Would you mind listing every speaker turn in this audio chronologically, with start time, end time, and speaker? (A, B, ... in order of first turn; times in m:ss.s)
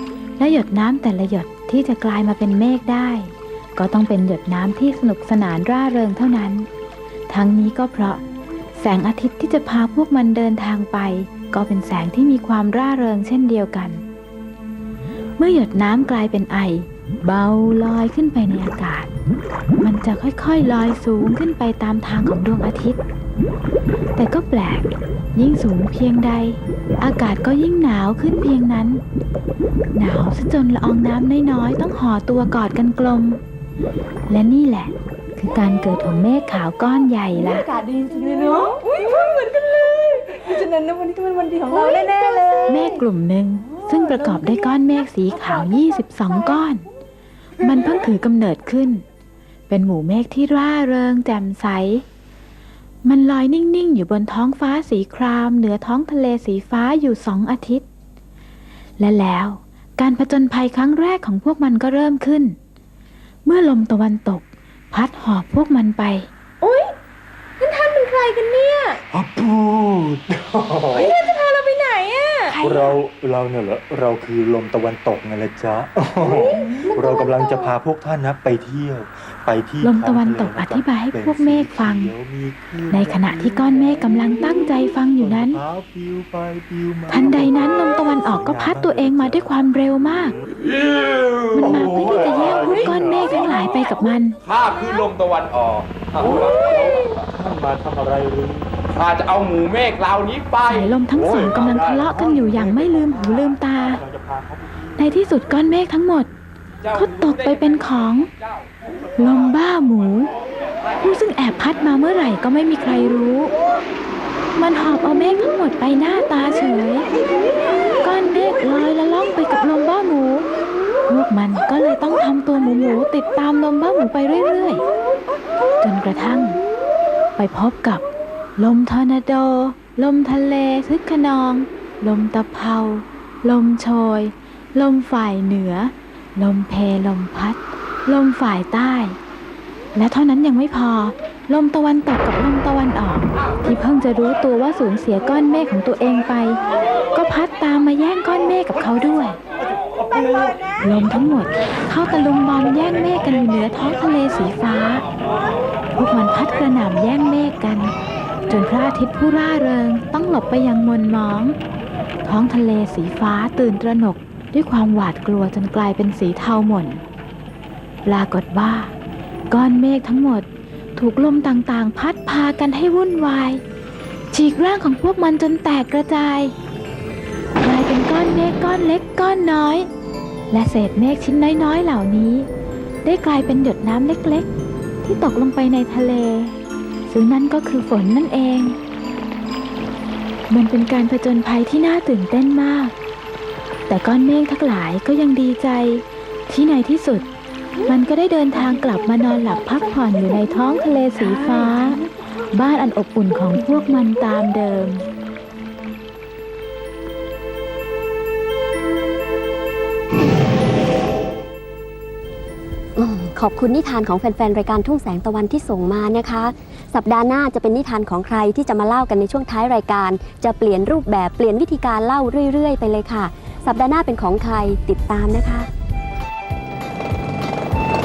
0:00.4-0:06.7 A
0:07.3-0:08.2 A
0:08.8-0:14.0 A
0:15.4-0:19.1 A
0:19.8-0:23.0 A
0:24.2-0:29.0 A
0:29.9-0:33.4 A
0:34.3-0:37.7 A
0:37.3-0:43.1 B
0:42.7-0:46.8 A
0:43.7-0:46.0 B
0:47.6-0:49.0 A
0:49.7-0:52.0 A
0:53.0-0:57.8 A
0:59.0-1:02.6 A
1:03.4-1:06.3 A
1:06.6-1:06.9 B
1:07.6-1:09.0 B
1:09.1-1:11.1 C
1:10.9-1:12.6 B
1:12.5-1:13.0 A
1:12.6-1:30.5 C
1:16.2-1:17.7 B
1:19.8-1:22.1 A
1:22.9-1:25.6 A
1:27.1-1:30.4 A
1:30.6-1:31.7 D
1:31.5-1:34.4 A
1:31.5-1:33.8 C
1:32.2-1:33.6 D
1:32.5-1:32.8 B
1:33.4-1:33.7 B
1:34.4-1:37.2 D
1:34.7-1:35.0 B
1:36.2-1:38.8 C
1:36.2-1:37.1 B
1:38.9-1:42.0 D
1:40.7-1:44.0 A
1:41.2-1:45.3 C
1:45.0-1:46.3 A
1:46.8-1:47.5 D
1:46.9-1:48.3 A
1:49.2-1:50.3 A
1:51.0-1:53.5 A
1:54.6-1:57.0 A
1:58.0-2:00.4 A
2:01.1-2:04.8 A
2:05.8-2:06.6 A
2:07.4-2:08.0 A
2:08.6-2:19.2 A
2:19.9-2:26.6 A
2:27.1-2:29.4 A
2:30.8-2:35.1 A
2:35.9-2:37.9 A
2:38.5-2:41.6 A
2:42.2-2:47.0 A
2:48.0-2:48.9 A
2:49.5-2:53.6 A
2:54.3-2:56.5 A
2:57.6-2:59.9 A
3:00.5-3:02.5 A
3:03.0-3:04.5 A
3:05.0-3:06.5 A
3:07.1-3:08.8 A
3:10.5-3:12.9 A
3:13.9-3:17.3 A
3:17.8-3:22.0 A
3:18.5-3:22.0 B
3:22.5-3:25.0 A
3:33.0-3:45.7 E